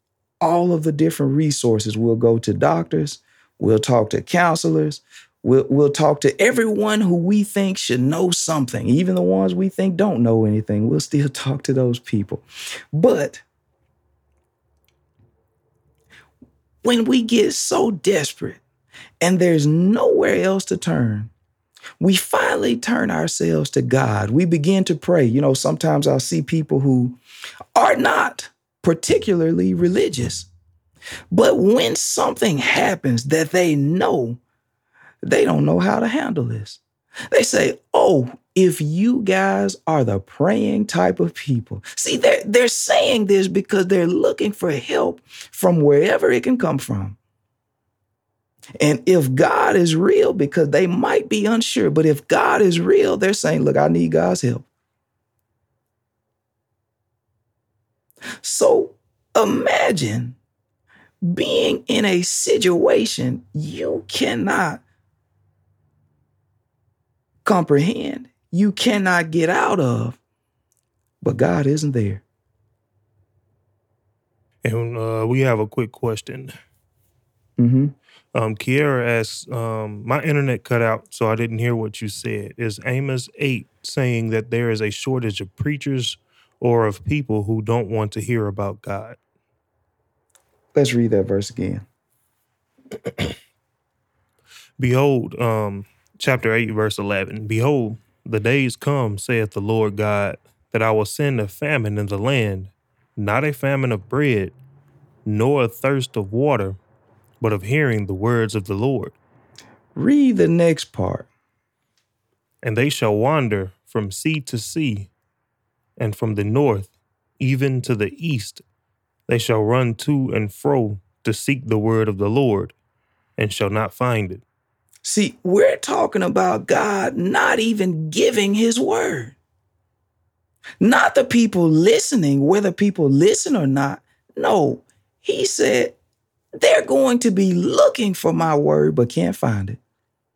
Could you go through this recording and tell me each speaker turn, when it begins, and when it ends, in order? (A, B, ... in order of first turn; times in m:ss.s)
0:00.4-0:13.4 A
0:16.8-0:18.6 A
0:19.2-0:21.3 A
0:22.0-0:27.2 A
0:27.7-0:30.5 A
0:31.3-0:34.4 A
0:35.2-0:36.8 A
0:37.3-0:47.2 A
0:48.8-0:54.6 A
0:58.4-1:00.4 A
1:01.2-1:04.8 A
1:07.4-1:10.2 A
1:11.2-1:12.2 A
1:14.6-1:16.5 B
1:17.6-1:17.9 A
1:18.3-1:29.2 B
1:30.7-1:31.8 A
1:34.8-1:44.5 B
1:45.2-1:46.8 B
1:47.4-1:49.2 B
1:49.9-1:51.3 A
1:52.6-1:55.1 B
1:56.0-1:58.6 B
1:59.3-2:02.7 B
2:03.4-2:04.4 B
2:05.0-2:09.4 A
2:10.8-2:16.0 A
2:16.6-2:19.8 A